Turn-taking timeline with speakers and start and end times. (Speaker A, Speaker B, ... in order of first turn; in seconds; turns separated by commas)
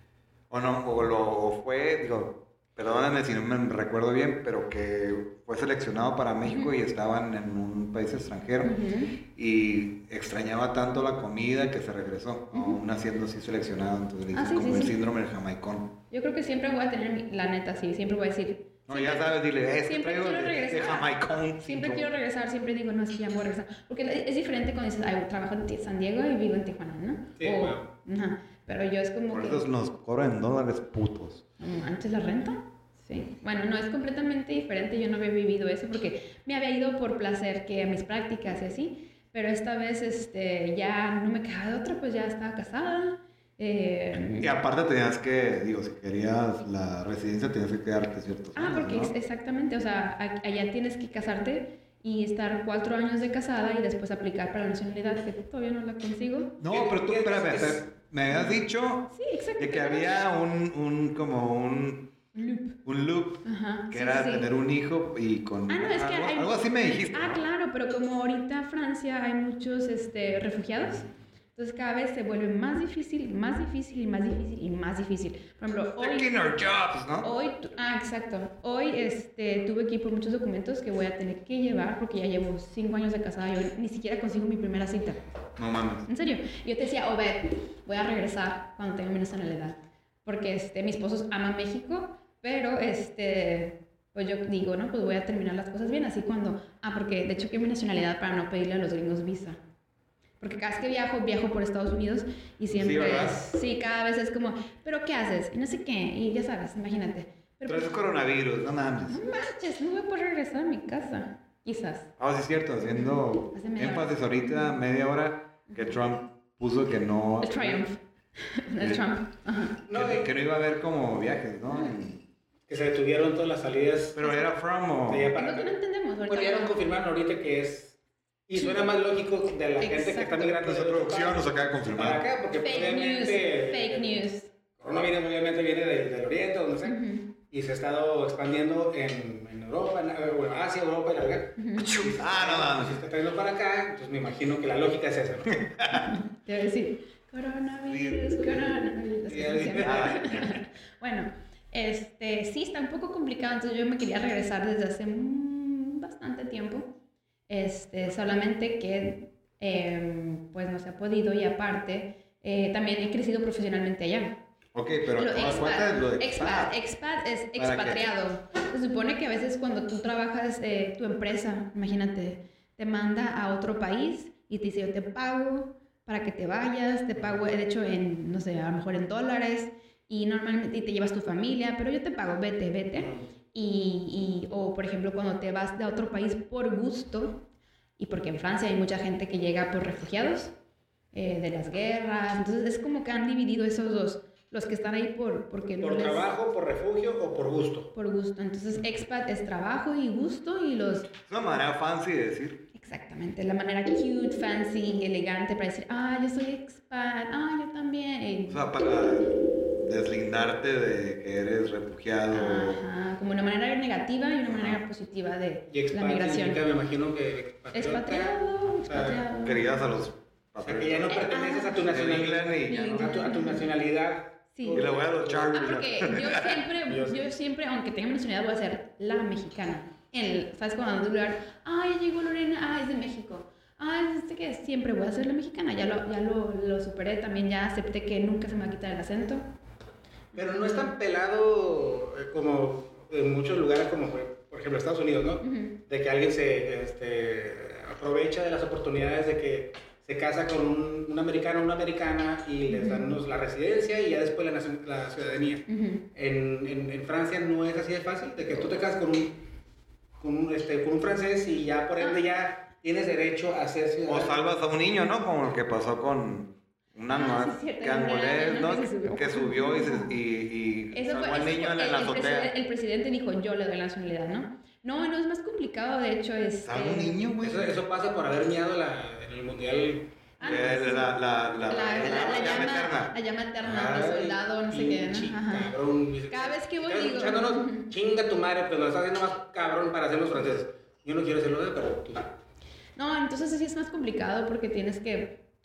Speaker A: 0.5-8.8, Speaker B: 6.5-6.8, Speaker B: 8.6-9.2, Speaker A: 9.3-15.9, Speaker B: 12.5-12.8, Speaker B: 14.3-15.0, Speaker B: 16.1-29.7, Speaker A: 18.9-22.1, Speaker C: 27.4-27.9, Speaker A: 29.3-31.4, Speaker B: 31.6-44.5, Speaker A: 44.4-49.1, Speaker B: 48.5-56.6, Speaker A: 56.6-62.1, Speaker C: 56.7-57.9, Speaker B: 58.3-58.6, Speaker B: 59.1-60.3, Speaker B: 62.3-62.8, Speaker A: 62.9-67.4, Speaker B: 63.5-64.5, Speaker B: 65.7-76.5, Speaker A: 76.0-77.3, Speaker B: 77.2-85.4, Speaker A: 85.6-86.1, Speaker B: 86.1-99.6, Speaker B: 100.4-108.1, Speaker A: 102.7-103.4, Speaker A: 107.7-109.2, Speaker B: 109.1-112.1, Speaker A: 112.2-117.8, Speaker B: 113.5-114.8, Speaker B: 117.4-119.8, Speaker C: 119.9-120.3, Speaker A: 119.9-122.2, Speaker B: 121.7-122.0, Speaker C: 122.7-124.2, Speaker A: 124.2-125.3, Speaker C: 125.1-125.8, Speaker B: 125.4-126.8, Speaker C: 126.3-128.0, Speaker C: 128.5-134.2, Speaker B: 128.6-128.9, Speaker B: 129.8-130.6, Speaker A: 130.5-132.2, Speaker B: 132.6-134.5, Speaker C: 134.8-137.0, Speaker B: 136.8-137.3, Speaker C: 137.5-145.6, Speaker B: 141.6-142.0, Speaker A: 141.8-143.0, Speaker A: 145.5-146.1, Speaker B: 145.9-156.9, Speaker A: 147.9-148.2, Speaker C: 149.3-150.2, Speaker A: 149.8-150.6, Speaker B: 157.5-164.4, Speaker A: 164.7-166.7, Speaker B: 165.1-187.4, Speaker A: 167.6-168.1, Speaker B: 188.0-190.5, Speaker B: 191.1-196.3, Speaker C: 195.8-197.9, Speaker B: 197.9-201.1, Speaker A: 201.3-202.6, Speaker B: 202.7-208.7, Speaker A: 208.5-212.8, Speaker B: 212.3-216.6, Speaker A: 214.5-214.8, Speaker C: 215.7-219.2, Speaker B: 217.7-219.7, Speaker A: 219.4-223.2, Speaker C: 220.6-225.6, Speaker B: 221.1-221.8, Speaker B: 222.7-223.7, Speaker B: 224.5-224.8, Speaker A: 224.7-226.6, Speaker B: 225.5-239.4, Speaker C: 226.9-227.3, Speaker C: 240.3-259.3, Speaker B: 245.4-245.8, Speaker B: 252.7-253.2, Speaker B: 255.7-256.0, Speaker C: 260.2-264.4, Speaker A: 264.1-272.5, Speaker B: 267.1-270.2, Speaker B: 270.9-277.2, Speaker A: 276.6-277.7, Speaker C: 277.4-280.1, Speaker B: 280.4-285.7, Speaker A: 280.4-283.1, Speaker C: 281.8-282.7, Speaker C: 283.6-292.3, Speaker B: 286.3-287.9, Speaker B: 293.0-295.4